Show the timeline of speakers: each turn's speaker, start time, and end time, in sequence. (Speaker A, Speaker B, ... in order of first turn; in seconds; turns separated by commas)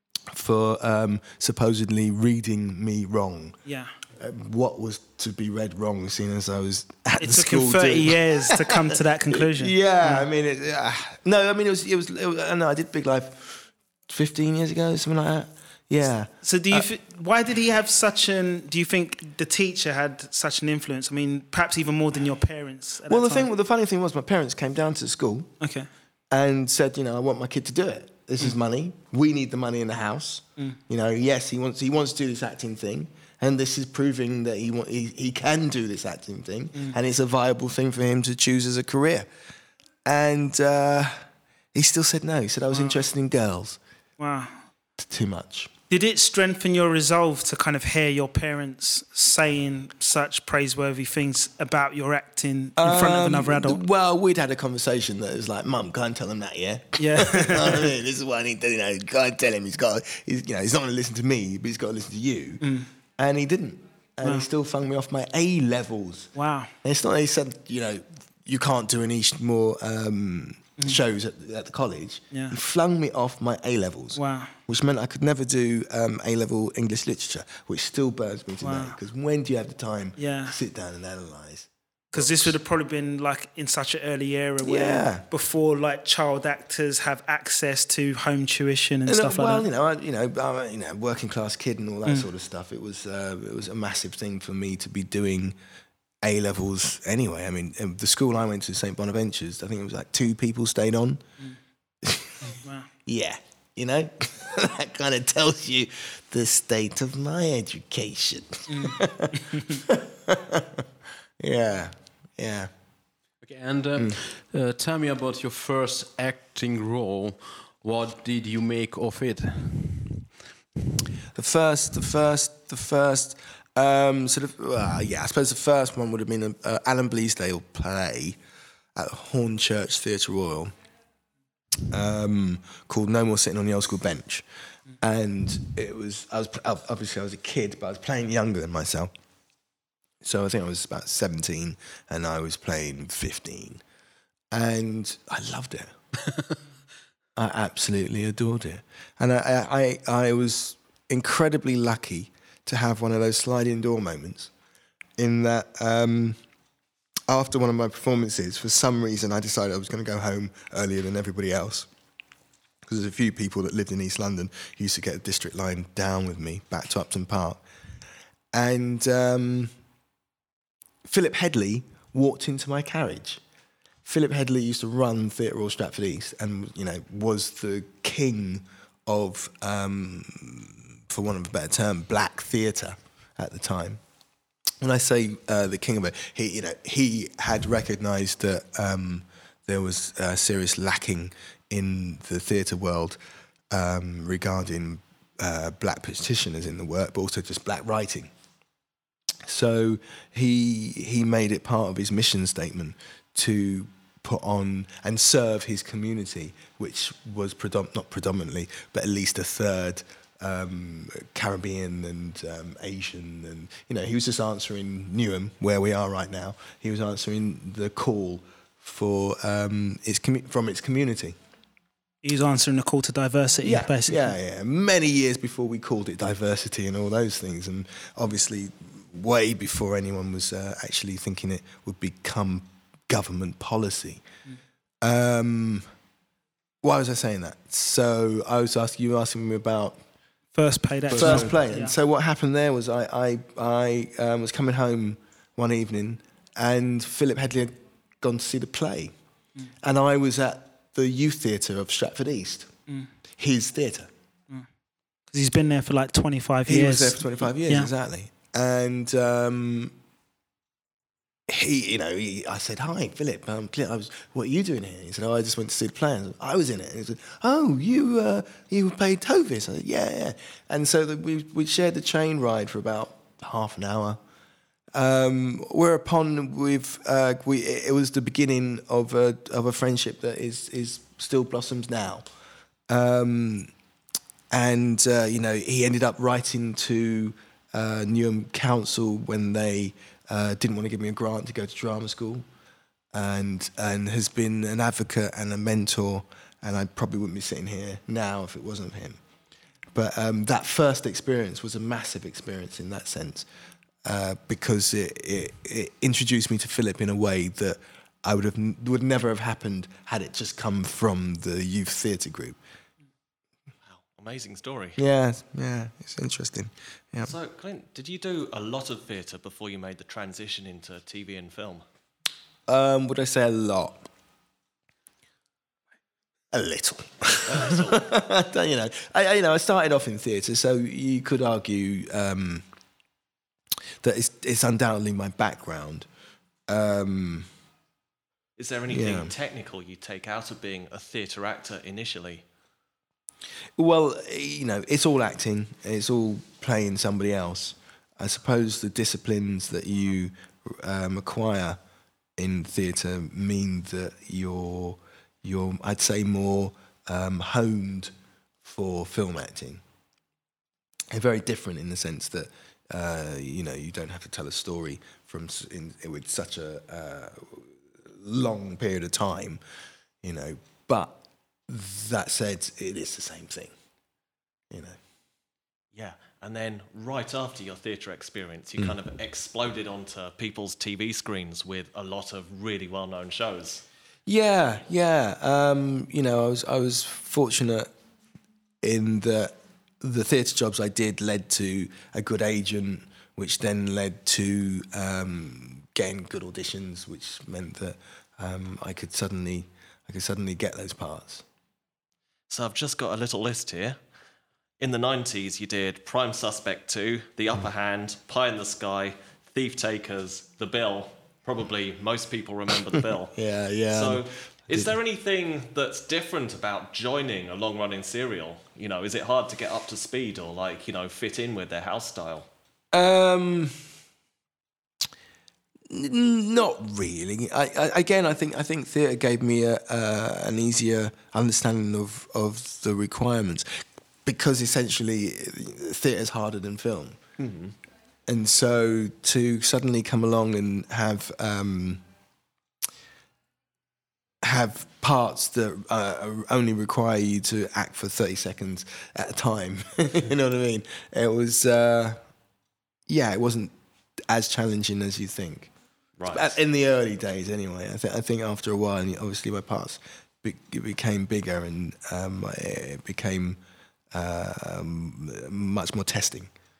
Speaker A: 0.3-3.6, Speaker B: 3.6-3.9, Speaker A: 4.2-8.8, Speaker B: 7.2-10.2, Speaker A: 9.3-16.9, Speaker B: 16.4-23.5, Speaker A: 23.1-25.5, Speaker B: 25.6-25.9, Speaker A: 26.3-39.3, Speaker A: 40.0-43.8, Speaker B: 42.7-43.0, Speaker B: 44.2-44.6, Speaker A: 45.0-45.7, Speaker B: 45.9-53.8, Speaker A: 52.8-62.6, Speaker B: 57.0-57.9, Speaker B: 62.6-62.9, Speaker A: 63.2-82.5, Speaker B: 66.3-66.7, Speaker B: 74.2-74.5, Speaker B: 78.6-79.0, Speaker B: 80.2-80.5, Speaker B: 82.1-89.6, Speaker A: 84.6-85.2, Speaker A: 89.1-95.5, Speaker A: 96.2-101.2, Speaker A: 102.0-102.5, Speaker B: 102.5-102.9, Speaker A: 103.0-110.8, Speaker B: 108.7-109.8, Speaker A: 111.4-112.7, Speaker C: 113.4-120.3, Speaker A: 121.3-128.4, Speaker A: 128.9-130.7, Speaker A: 131.9-134.4, Speaker A: 135.0-139.1, Speaker A: 140.2-143.8, Speaker A: 144.5-145.9, Speaker A: 147.3-154.5, Speaker A: 155.2-156.4, Speaker A: 157.3-161.9, Speaker A: 162.8-167.6, Speaker A: 168.5-169.7, Speaker A: 171.0-173.4, Speaker A: 174.0-184.0, Speaker A: 184.8-193.2, Speaker A: 193.7-198.3, Speaker A: 199.4-221.4, Speaker B: 222.2-224.3, Speaker A: 223.6-234.2, Speaker A: 235.0-235.8, Speaker A: 236.8-240.0, Speaker B: 240.5-241.9, Speaker C: 241.1-241.6, Speaker A: 241.1-249.1, Speaker A: 249.8-252.7, Speaker A: 253.4-254.1, Speaker B: 255.3-257.9, Speaker A: 256.7-259.9, Speaker A: 261.5-274.2, Speaker A: 274.9-282.2, Speaker A: 282.9-283.7, Speaker A: 284.5-292.4, Speaker A: 293.1-299.2, Speaker A: 299.9-303.5, Speaker A: 304.0-312.6, Speaker D: 313.9-315.0, Speaker A: 315.0-317.3, Speaker D: 317.2-321.8, Speaker A: 322.7-324.1, Speaker A: 326.5-332.6, Speaker D: 327.4-328.0, Speaker A: 334.0-336.1, Speaker A: 336.7-337.5, Speaker D: 338.6-342.4, Speaker A: 338.9-339.3, Speaker A: 343.8-351.8, Speaker A: 352.4-358.1, Speaker A: 358.6-359.8, Speaker A: 361.1-369.6, Speaker A: 370.2-373.7, Speaker A: 374.7-375.0, Speaker D: 375.9-383.8, Speaker A: 384.2-387.9, Speaker A: 388.8-401.4, Speaker D: 402.5-404.0, Speaker D: 404.8-413.4, Speaker A: 413.3-414.9, Speaker D: 413.9-422.5, Speaker A: 422.9-423.8, Speaker A: 425.9-437.2, Speaker D: 437.4-437.7, Speaker A: 438.3-442.0, Speaker A: 444.4-452.2, Speaker A: 453.1-453.7, Speaker A: 454.3-455.7, Speaker D: 456.2-456.5, Speaker A: 456.3-463.6, Speaker A: 464.1-466.5